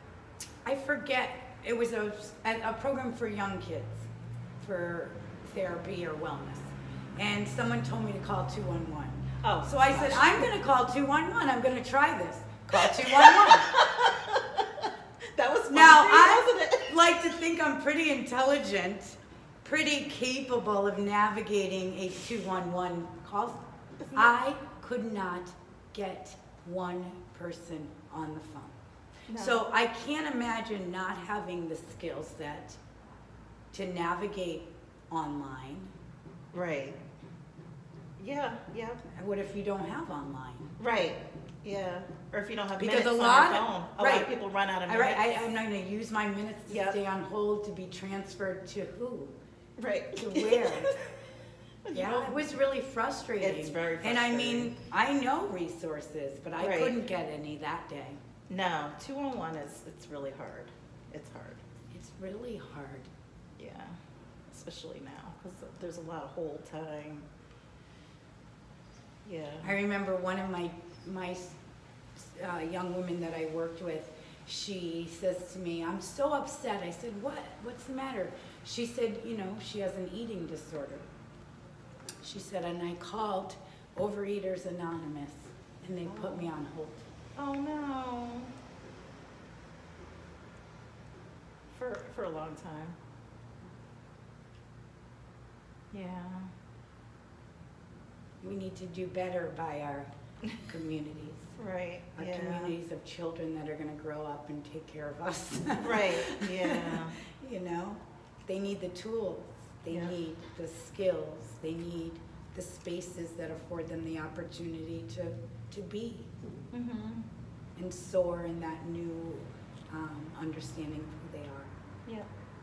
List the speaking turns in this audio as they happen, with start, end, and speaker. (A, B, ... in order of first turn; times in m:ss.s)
0:00.7-0:04.1 A
0:04.6-0:13.8 A
0:09.4-0:10.5 B
0:12.7-0:16.9 B
0:15.7-0:23.6 A
0:24.0-0:24.3 B
0:24.2-0:28.8 A
0:29.3-0:29.6 B
0:29.3-0:32.8 A
0:33.7-0:35.9 A
0:36.5-0:37.0 B
0:38.2-0:39.0 B
0:39.1-0:40.7 A
0:40.8-0:45.4 B
0:42.8-0:44.3 A
0:44.9-0:49.4 A
0:46.7-0:47.0 B
0:49.8-0:51.2 B
0:50.1-0:50.9 A
0:51.8-0:52.5 B
0:51.9-0:58.2 A
0:53.4-0:54.7 B
0:56.6-0:57.0 B
0:58.5-1:01.6 B
1:01.9-1:03.1 A
1:03.6-1:04.0 B
1:04.5-1:07.3 B
1:09.2-1:09.7 B
1:09.6-1:11.6 A
1:12.2-1:21.1 A
1:22.2-1:27.1 A
1:26.1-1:26.5 B
1:27.4-1:28.5 B
1:31.7-1:33.0 B
1:35.9-1:36.5 B
1:38.4-1:41.6 A
1:41.6-1:42.8 B
1:42.2-1:56.3 A
1:45.8-1:47.2 B
1:49.9-1:50.2 B
1:56.7-1:57.3 B
1:57.8-2:01.7 A